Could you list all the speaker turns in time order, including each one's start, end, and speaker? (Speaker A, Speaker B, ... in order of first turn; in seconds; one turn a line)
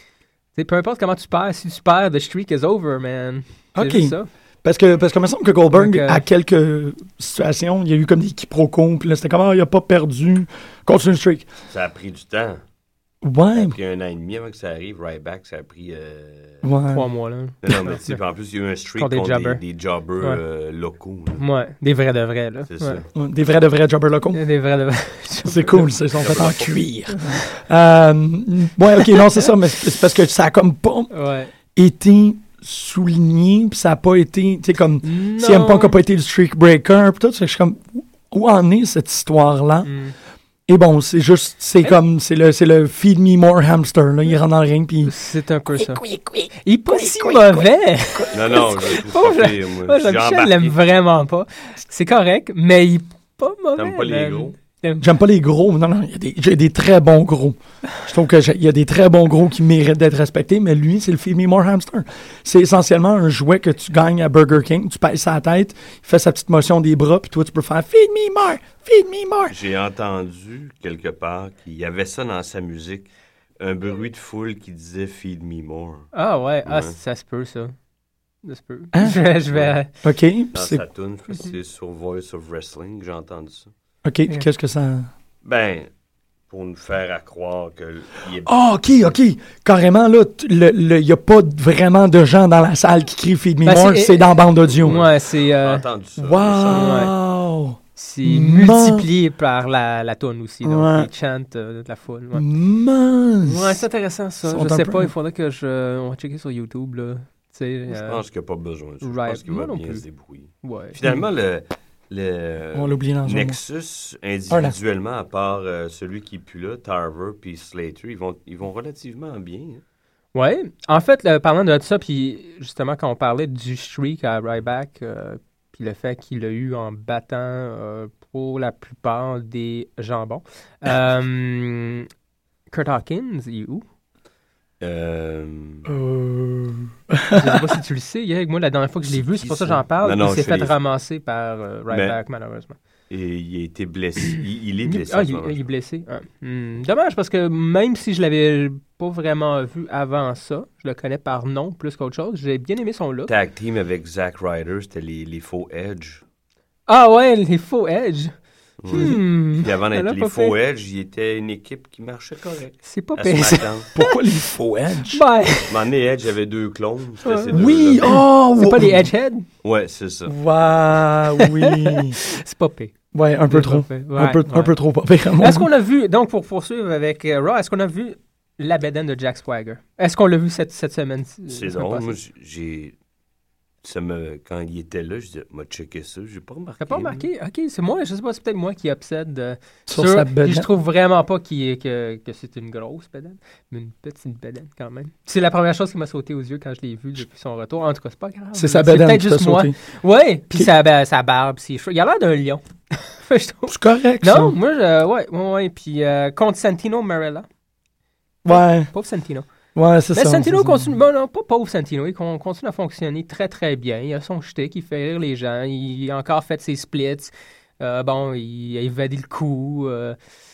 Speaker A: 0.5-4.3
Speaker B: 3.8-11.5
Speaker A: 5.7-6.2
Speaker C: 11.7-12.6
Speaker B: 13.2-13.8
Speaker C: 13.5-16.6
Speaker B: 16.6-17.1
Speaker A: 16.9-18.2
Speaker C: 17.6-21.4
Speaker A: 19.0-19.6
Speaker A: 21.4-23.0
Speaker C: 22.7-23.1
Speaker B: 23.1-24.4
Speaker A: 24.3-25.8
Speaker B: 25.4-31.1
Speaker C: 26.2-26.8
Speaker A: 31.1-31.5
Speaker B: 31.7-39.9
Speaker A: 35.0-36.0
Speaker A: 39.8-40.1
Speaker B: 40.7-45.1
Speaker A: 45.0-46.0
Speaker B: 45.7-48.7
Speaker A: 46.6-55.1
Speaker C: 48.3-50.8
Speaker C: 53.8-54.5
Speaker B: 55.0-69.5
Speaker C: 69.5-76.1
Speaker A: 76.1-77.7
Speaker C: 76.7-77.0
Speaker A: 78.4-79.9
Speaker B: 80.0-80.8
Speaker C: 80.5-83.7
Speaker B: 84.0-85.1
Speaker C: 85.4-85.9
Speaker C: 86.5-89.2
Speaker B: 88.5-95.0
Speaker A: 93.6-95.8
Speaker C: 94.7-97.1
Speaker B: 96.2-99.1
Speaker A: 96.7-97.1
Speaker A: 98.0-102.4
Speaker B: 100.6-101.1
Speaker B: 102.3-103.8
Speaker A: 103.4-108.2
Speaker B: 104.5-105.1
Speaker C: 107.9-119.8
Speaker A: 109.0-110.0
Speaker A: 110.6-111.0
Speaker B: 112.7-113.6
Speaker B: 114.5-114.8
Speaker A: 120.3-132.1
Speaker A: 132.7-133.8
Speaker C: 134.8-135.9
Speaker B: 135.9-137.7
Speaker A: 137.3-142.8
Speaker C: 139.1-140.8
Speaker C: 141.9-142.2
Speaker C: 143.1-145.6
Speaker A: 144.8-153.3
Speaker C: 153.3-156.2
Speaker A: 156.9-158.3
Speaker C: 158.8-163.9
Speaker A: 158.9-160.5
Speaker A: 162.8-164.1
Speaker B: 163.9-165.5
Speaker A: 165.1-165.7
Speaker C: 165.7-168.1
Speaker A: 167.2-169.5
Speaker B: 167.5-169.1
Speaker C: 169.6-170.3
Speaker B: 170.3-172.2
Speaker A: 171.4-172.9
Speaker B: 173.1-175.7
Speaker A: 173.5-174.7
Speaker A: 175.4-182.2
Speaker C: 181.5-182.9
Speaker C: 183.8-187.3
Speaker A: 186.8-207.4
Speaker B: 189.9-190.7
Speaker B: 198.5-199.8
Speaker B: 203.7-204.6
Speaker B: 208.4-208.9
Speaker A: 208.5-209.4
Speaker B: 209.7-210.9
Speaker A: 210.1-220.2